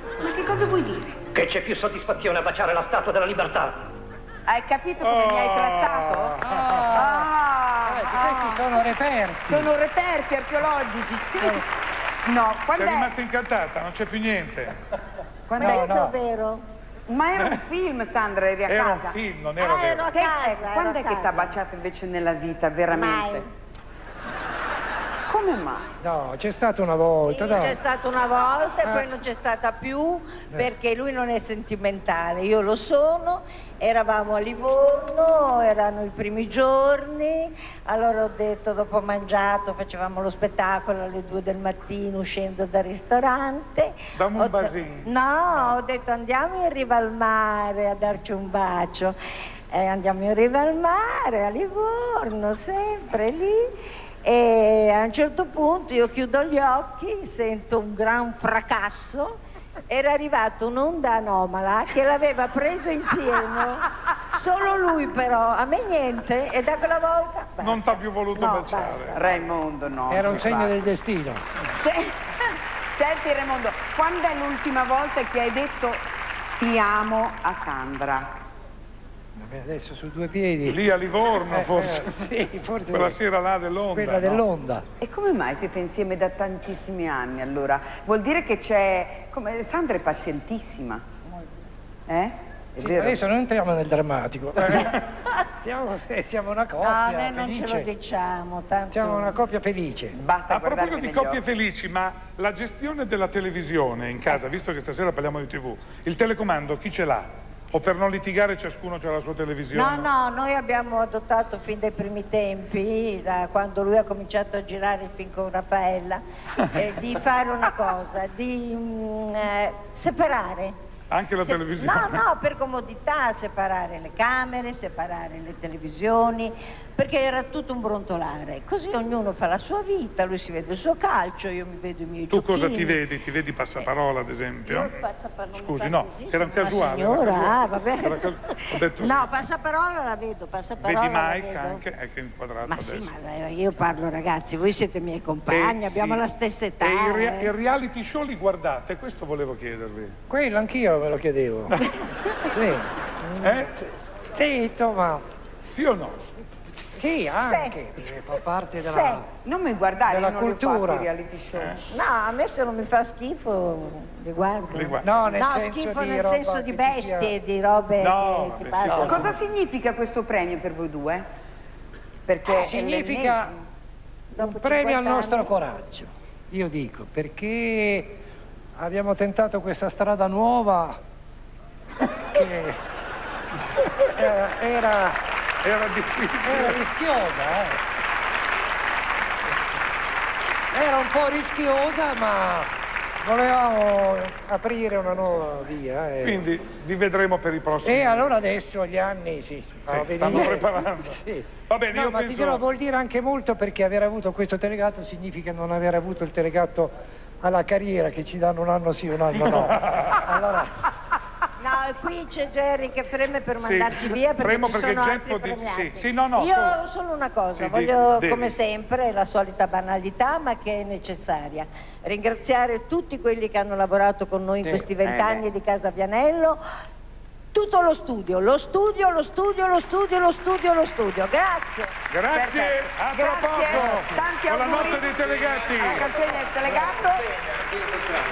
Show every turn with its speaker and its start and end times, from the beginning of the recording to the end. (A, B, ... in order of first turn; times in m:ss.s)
0:00.2-0:01.2 A
0:01.3-0:03.8 B
0:04.5-0:06.4 A
0:05.0-0:06.9 C
0:06.4-0:07.3 D
0:06.9-0:08.9 A
0:07.8-0:09.7 D
0:09.4-0:11.6 A
0:12.2-0:13.1 A
0:12.7-0:14.7 C
0:15.5-0:16.0 A
0:15.6-0:16.1 D
0:15.6-0:16.6 E
0:17.1-0:19.2 A
0:18.7-0:20.1 C
0:19.6-0:21.6 E
0:20.1-0:23.4 A
0:22.9-0:23.4 E
0:25.3-0:25.9 A
0:26.0-0:27.8 D
0:27.2-0:49.2 E
0:28.8-0:29.1 D
0:44.1-0:45.1 C
0:49.7-0:53.7 E
0:54.2-0:59.4 E
0:59.9-1:09.5 E
1:07.6-1:09.2 C
1:09.1-1:10.8 A
1:10.1-1:11.4 D
1:11.7-1:12.3 A
1:12.9-1:16.0 A
1:16.6-1:18.3 A
1:19.4-1:20.8 D
1:20.6-1:22.1 C
1:21.4-1:23.2 D
1:22.9-1:24.4 C
1:23.9-1:24.8 D
1:25.0-1:31.0 A
1:32.1-1:33.2 A
1:32.8-1:37.9 D
1:36.8-1:39.4 E
1:38.9-1:40.2 D
1:40.1-1:41.4 A
1:40.5-1:50.1 C
1:49.7-1:56.2 E
1:56.7-2:00.7 E
2:01.1-2:02.2 C
2:01.4-2:13.0 E
2:12.3-2:14.9 C
2:14.7-2:21.8 E
2:15.5-2:19.3 C
2:20.8-2:23.1 C
2:22.7-2:27.5 E
2:25.5-2:26.2 C
2:26.8-2:30.2 C
2:30.3-2:31.8 D
2:32.4-2:35.2 D
2:33.4-2:33.7 C
2:35.7-2:36.2 C
2:36.7-2:39.3 D
2:37.3-2:37.8 E
2:38.7-2:39.2 E
2:39.4-2:41.8 A
2:40.1-2:41.1 D
2:41.5-2:41.8 C
2:41.9-2:49.3 E
2:44.7-2:45.3 C
2:45.0-2:47.3 D
2:48.0-2:49.4 C
2:48.8-2:51.2 A
2:52.2-2:53.6 A
2:52.5-2:53.5 D
2:54.3-2:55.5 E
2:54.4-2:58.2 D
2:58.8-3:01.0 D
3:02.2-3:02.8 D
3:04.1-3:05.2 D
3:05.6-3:06.8 C
3:06.4-3:07.8 D
3:10.7-3:16.5 D
3:16.2-3:18.4 C
3:17.8-3:30.7 D
3:19.8-3:22.6 C
3:29.4-3:30.2 C
3:31.6-3:46.6 E
3:33.6-3:36.8 C
3:37.6-3:38.6 C
3:44.6-3:44.9 D
3:45.0-3:45.4 A
3:47.5-3:51.9 E
3:52.1-3:56.1 C
3:52.3-3:57.3 A
3:53.7-3:54.1 D